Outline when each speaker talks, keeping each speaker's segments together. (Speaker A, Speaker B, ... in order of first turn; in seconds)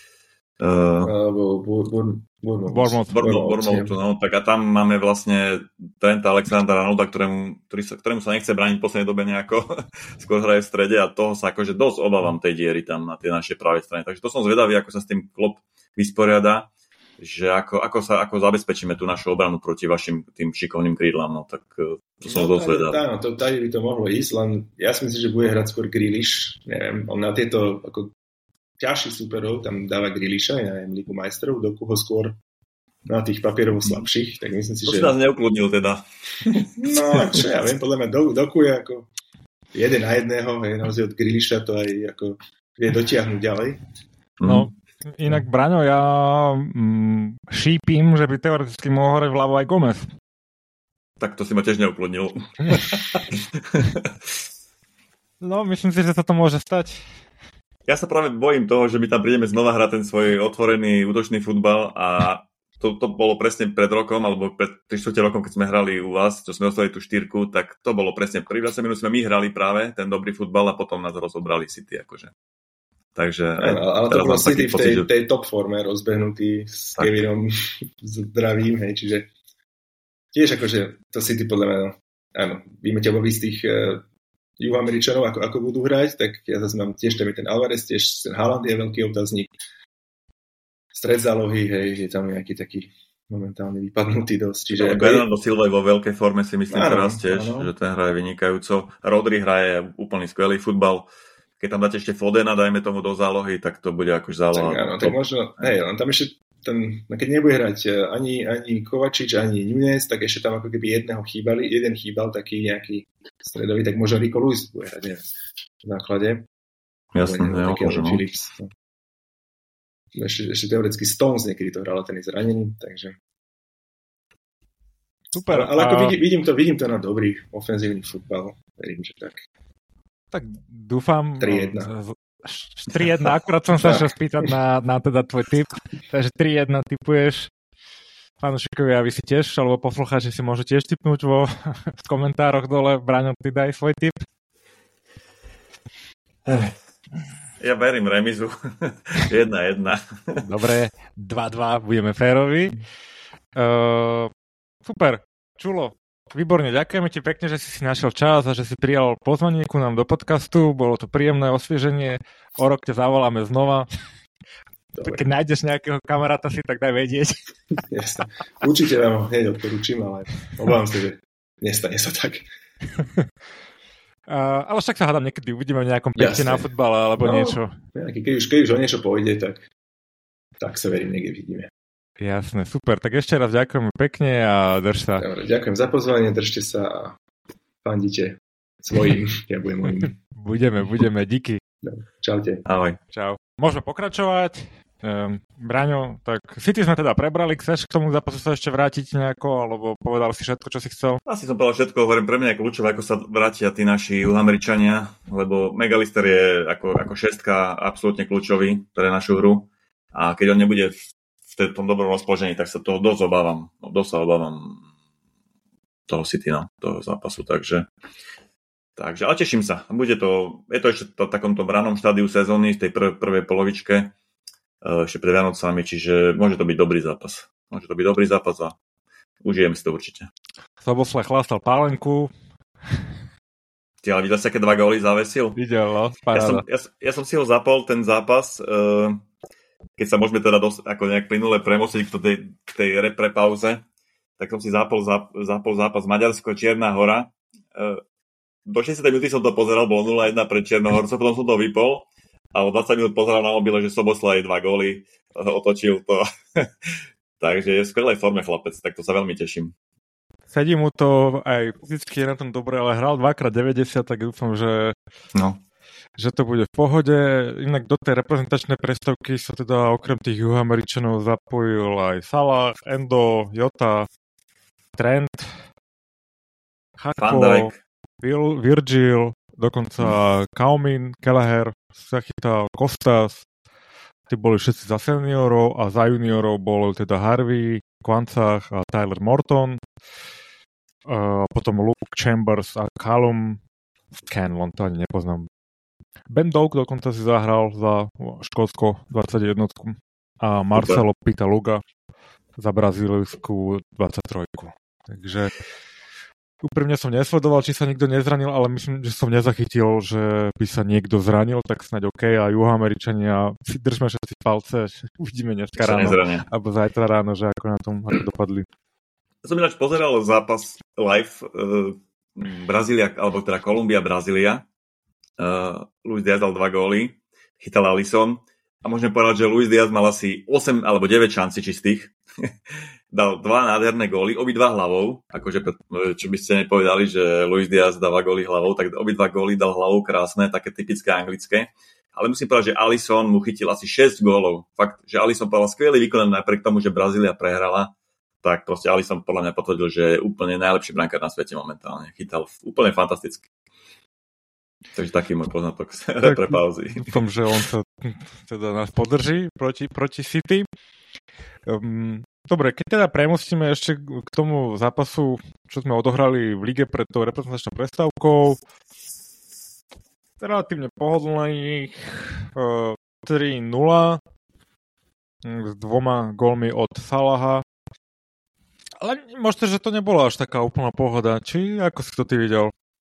Speaker A: 0.6-1.1, 3.1-23.0, 34.9-37.4, 44.4-44.7, 51.2-54.1, 57.9-72.3, 73.2-75.1, 94.7-101.1, 101.6-105.7, 117.1-118.2, 146.5-146.7, 147.6-150.4, 192.7-193.0, 201.3-214.9, 216.1-217.9, 219.0-224.2, 224.8-228.8, 229.4-230.3, 234.0-235.6, 236.3-239.2, 240.0-243.8, 244.4-248.0, 248.7-259.7, 277.2-277.8, 300.8-301.0, 315.8-316.5, 319.4-324.7, 325.4-332.5, 333.1-347.9, 348.4-353.5, 354.9-357.1
Speaker B: 1.0-4.0, 22.3-28.1, 28.8-32.4, 33.1-35.1, 36.8-39.1, 39.7-43.8, 73.6-79.3, 80.3-84.0, 84.6-89.6, 90.9-95.3, 96.7-97.7, 104.5-115.2, 115.8-116.5, 117.2-118.7, 120.2-123.2, 125.5-129.4, 131.4-131.9, 164.9-165.2, 167.9-172.4, 176.2-176.7, 177.2-179.7, 180.6-181.7, 185.2-187.2, 187.8-190.2, 191.8-192.6
Speaker C: 2.7-3.2, 44.4-50.1, 55.4-57.0, 125.3-126.2, 130.3-137.5, 138.4-144.2, 150.4-152.8, 153.6-154.3, 154.8-163.9, 165.0-167.4, 173.0-173.2, 174.3-177.7, 182.2-185.3, 190.0-191.6, 193.1-201.2, 230.8-232.3, 235.6-236.6, 260.5-264.9, 266.2-274.1, 275.0-275.6, 277.0-283.5, 284.3-289.8, 291.1-293.6, 294.3-295.5, 296.3-301.8, 302.6-305.5, 306.6-318.7, 356.2-360.7, 361.7-368.6, 370.4-374.2, 375.4-377.6, 379.0-382.7